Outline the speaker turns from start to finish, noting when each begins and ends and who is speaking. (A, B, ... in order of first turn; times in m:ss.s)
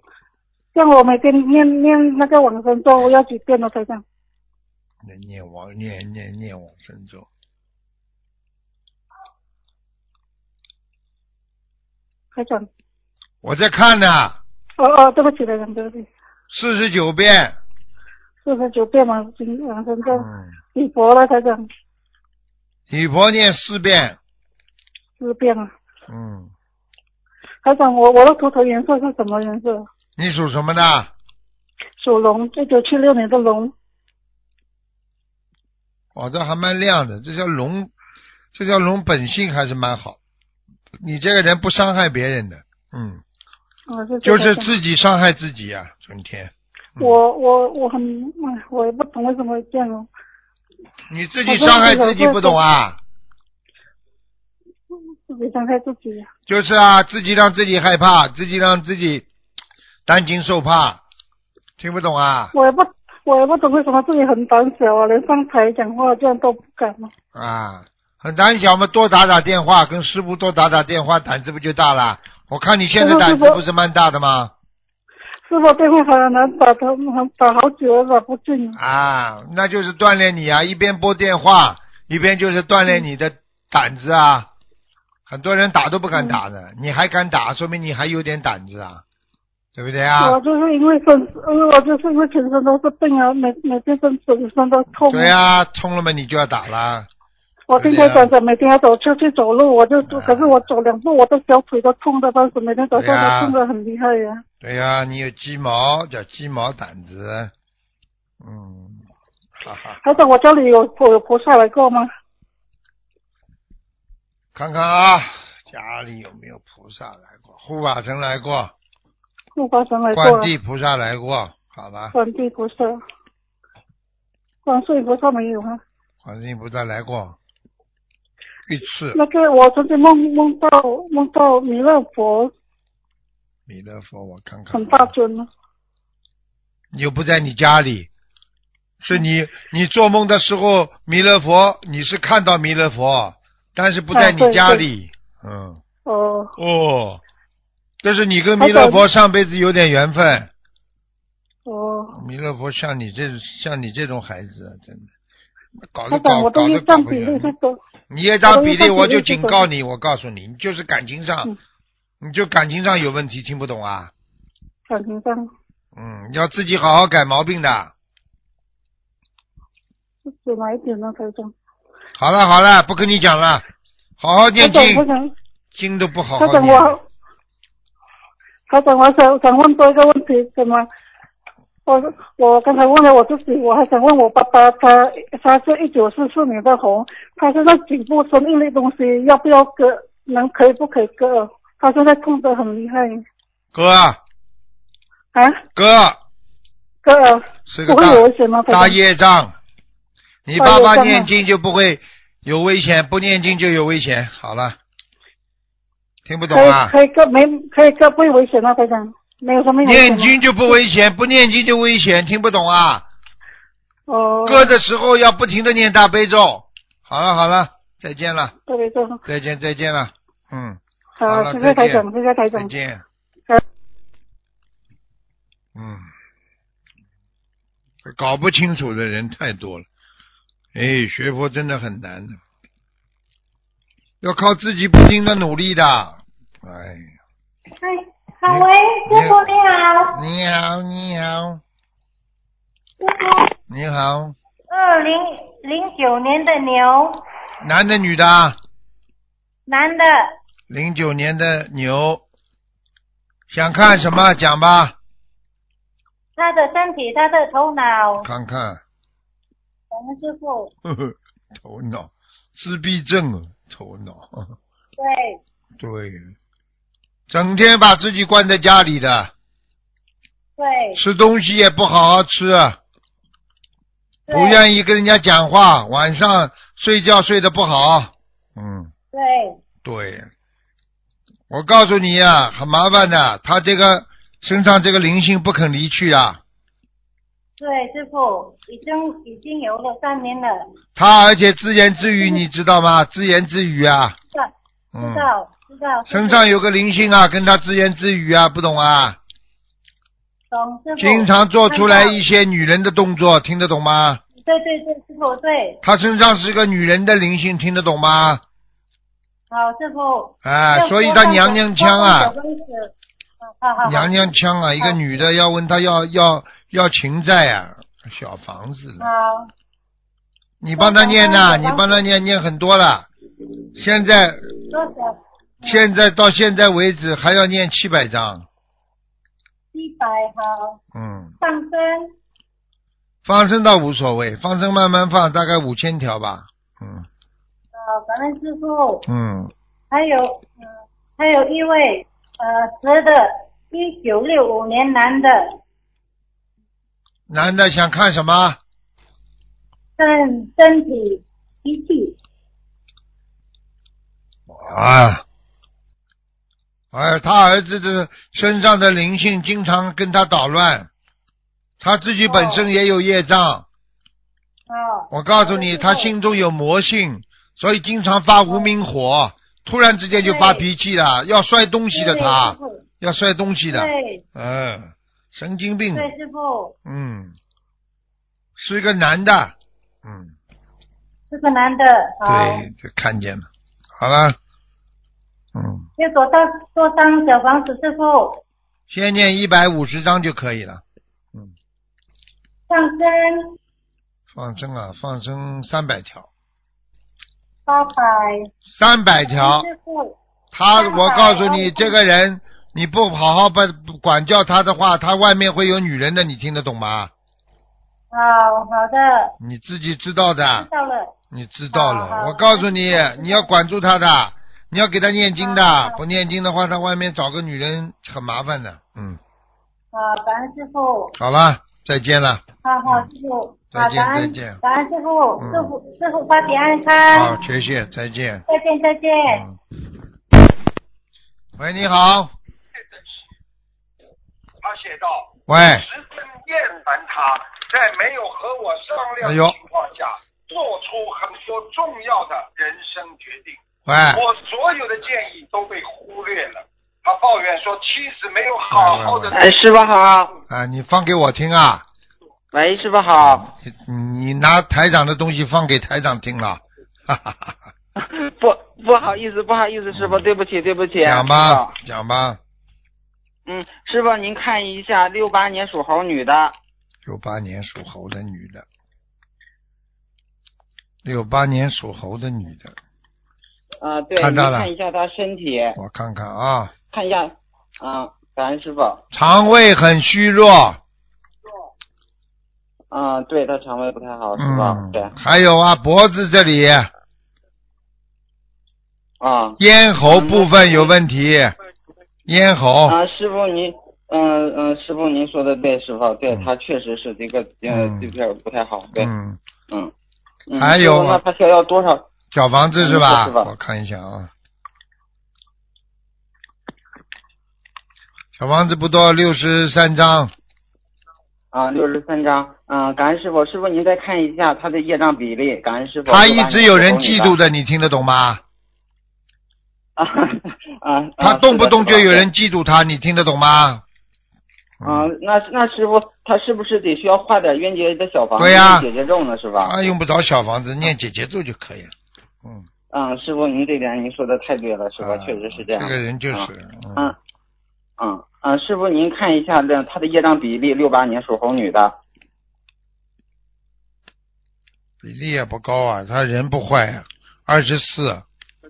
0:00.7-0:04.0 A
0:05.0-0:07.3 B
0:12.3-0:12.7 A
0:13.4-0:14.4 B
0:14.8-0:16.1 A
0:16.5-0:17.6 B
0:18.4-0:21.7 A
0:20.1-0:20.5 B
0:22.9-0:24.2 B
0:25.2-0:25.7 A
0:26.1-0:26.5 B
0:27.6-0:29.9 A
0:30.2-0:31.1 B
0:32.0-0:33.7 A
0:36.2-0:37.9 B
0:38.5-0:40.2 B
0:41.0-0:43.2 B
0:43.9-0:44.7 A
0:44.2-0:47.2 B
0:47.0-0:50.1 A
0:51.1-0:53.0 B
0:51.5-0:52.6 A
0:55.3-0:56.3 A
0:56.5-0:59.3 B
1:00.1-1:01.0 B
1:01.8-1:02.5 B
1:02.5-1:07.1 A
1:07.3-1:14.5 B
1:13.0-1:13.6 A
1:15.5-1:18.8 A
1:18.8-1:24.5 B
1:25.3-1:29.0 B
1:26.1-1:26.4 A
1:29.8-1:30.4 B
1:30.2-1:35.3 A
1:35.0-1:37.1 B
1:37.7-1:44.4 A
1:37.8-1:38.3 B
1:40.1-1:40.6 B
1:42.9-1:43.6 B
1:44.6-1:47.5 B
1:48.4-1:49.1 B
1:49.6-1:50.2 B
1:50.0-1:52.1 A
1:54.5-1:58.7 B
1:59.6-2:00.5 A
2:00.1-2:02.2 B
2:02.1-2:03.0 A
2:04.6-2:05.8 A
2:06.2-2:07.4 B
2:08.7-2:09.2 B
2:09.1-2:12.5 A
2:13.7-2:15.1 B
2:14.7-2:15.5 A
2:16.9-2:18.1 B
2:19.0-2:25.8 B
2:24.1-2:24.8 A
2:26.1-2:26.6 A
2:26.6-2:27.2 B
2:28.0-2:30.5 B
2:28.6-2:29.0 A
2:31.7-2:32.2 A
2:32.1-2:35.1 B
2:35.9-2:37.5 B
2:36.1-2:37.8 A
2:38.1-2:41.5 B
2:38.5-2:39.7 A
2:42.2-2:44.1 B
2:44.9-2:45.5 A
2:46.0-2:47.9 B
2:50.3-2:51.5 A
2:52.2-2:53.7 B
2:54.2-2:55.1 B
2:54.6-2:55.3 A
2:55.7-2:57.0 B
2:56.4-2:57.0 A
2:58.7-3:00.9 A
3:01.9-3:13.2 A
3:13.7-3:14.2 B
3:15.3-3:15.6 A
3:15.8-3:16.2 B
3:17.0-3:19.0 A
3:17.7-3:19.6 B
3:20.4-3:24.8 B
3:20.6-3:21.3 A
3:26.3-3:26.9 B
3:26.5-3:30.4 A
3:29.8-3:33.1 B
3:34.1-3:34.7 A
3:34.4-3:38.5 B
3:38.7-3:39.2 A
3:39.3-3:43.0 B
3:41.2-3:42.7 A
3:45.8-3:46.1 B
3:48.0-3:49.9 B
3:50.7-3:52.4 B
3:54.2-3:57.1 B
3:57.8-4:00.2 C
3:58.5-3:59.5 B
4:00.1-4:01.6 B
4:03.0-4:03.5 C
4:03.7-4:04.4 B
4:04.7-4:07.2 C
4:07.6-4:08.6 B
4:09.7-4:10.3 C
4:10.7-4:12.2 B
4:13.5-4:15.0 B
4:16.4-4:18.3 C
4:18.2-4:18.8 B
4:19.9-4:20.7 C
4:20.8-4:24.6 B
4:25.0-4:25.4 C
4:25.8-4:26.3 B
4:27.3-4:29.3 B
4:30.6-4:31.0 C
4:31.0-4:32.8 B
4:34.3-4:34.6 C
4:34.3-4:38.9 B
4:39.1-4:39.6 C
4:39.8-4:40.3 B
4:41.5-4:46.4 B
4:47.6-4:50.6 C
4:51.0-4:54.2 B
4:54.3-4:56.5 C
4:54.9-4:55.3 B
4:56.1-4:59.2 B
5:00.5-5:02.2 C
5:01.0-5:04.2 B
5:04.4-5:05.8 C
5:05.8-5:08.4 B
5:09.5-5:12.9 C
5:10.4-5:12.3 B
5:13.6-5:14.3 C
5:13.8-5:19.1 B
5:19.0-5:19.5 C
5:20.6-5:23.1 B
5:20.8-5:22.0 C
5:23.8-5:24.4 B
5:24.7-5:25.9 C
5:25.6-5:28.5 B
5:29.7-5:30.8 C
5:31.0-5:31.3 B
5:31.4-5:32.1 C
5:33.2-5:37.1 B
5:37.8-5:39.1 C
5:39.1-5:39.5 B
5:39.9-5:45.6 C
5:47.3-5:48.6 B
5:50.0-5:52.2 C
5:54.5-5:55.2 B
5:56.9-6:00.9 B
6:01.8-6:03.7 B
6:02.3-6:02.7 C
6:04.7-6:06.1 C
6:05.1-6:16.1 B
6:10.2-6:10.7 C
6:11.9-6:12.8 C
6:13.7-6:14.2 C
6:16.0-6:16.8 C
6:16.9-6:17.4 B
6:18.6-6:20.3 B
6:21.3-6:22.7 C
6:22.2-6:23.5 B
6:24.0-6:24.4 B
6:25.6-6:25.9 B
6:26.0-6:28.4 C
6:28.9-6:30.8 B
6:32.7-6:33.6 C
6:34.3-6:36.3 B
6:37.7-6:38.5 C
6:38.7-6:39.7 B
6:39.2-6:40.2 C
6:40.5-6:47.1 B
6:40.7-6:42.0 C
6:48.1-6:49.4 C
6:49.4-6:50.7 B
6:50.5-6:51.1 C
6:51.3-6:59.2 B
6:51.7-6:53.5 C
6:55.4-6:56.0 C
6:59.9-7:01.2 C
7:01.2-7:03.1 B
7:02.6-7:07.4 C
7:03.7-7:04.6 B
7:05.4-7:05.7 B
7:07.1-7:08.4 B
7:08.5-7:09.4 C
7:09.3-7:09.6 B
7:11.6-7:12.3 B
7:14.6-7:29.5 D
7:15.5-7:15.9 B
7:19.2-7:19.6 B
7:23.9-7:24.2 B
7:28.7-7:29.4 B
7:29.3-7:30.3 E
7:30.5-7:31.8 B
7:32.5-7:33.5 E
7:33.4-7:37.6 B
7:38.0-7:41.8 E
7:39.9-7:40.2 B
7:41.0-7:42.4 B
7:43.5-7:46.6 E
7:47.0-7:48.6 B
7:51.0-7:52.8 B
7:53.8-7:55.8 E
7:54.2-7:54.7 B
7:55.8-7:56.7 B
7:56.9-7:59.0 E
7:59.1-8:00.8 B
8:02.9-8:05.1 E
8:04.4-8:06.9 B
8:09.2-8:10.9 E
8:09.6-8:11.6 B
8:12.3-8:13.0 B
8:12.9-8:19.1 E
8:17.7-8:18.1 B
8:19.0-8:19.4 B
8:20.5-8:22.1 E
8:20.6-8:21.2 B
8:22.3-8:24.3 B
8:22.8-8:23.5 E
8:28.4-8:30.3 B
8:31.5-8:37.4 E
8:36.1-8:38.4 B
8:40.0-8:42.3 E
8:41.2-8:43.8 B
8:44.8-8:45.1 B
8:44.8-8:49.7 E
8:48.4-8:48.9 B
8:49.6-8:51.9 B
8:52.9-8:57.2 E
8:55.0-8:57.1 B
8:58.0-9:02.0 E
9:05.0-9:08.2 B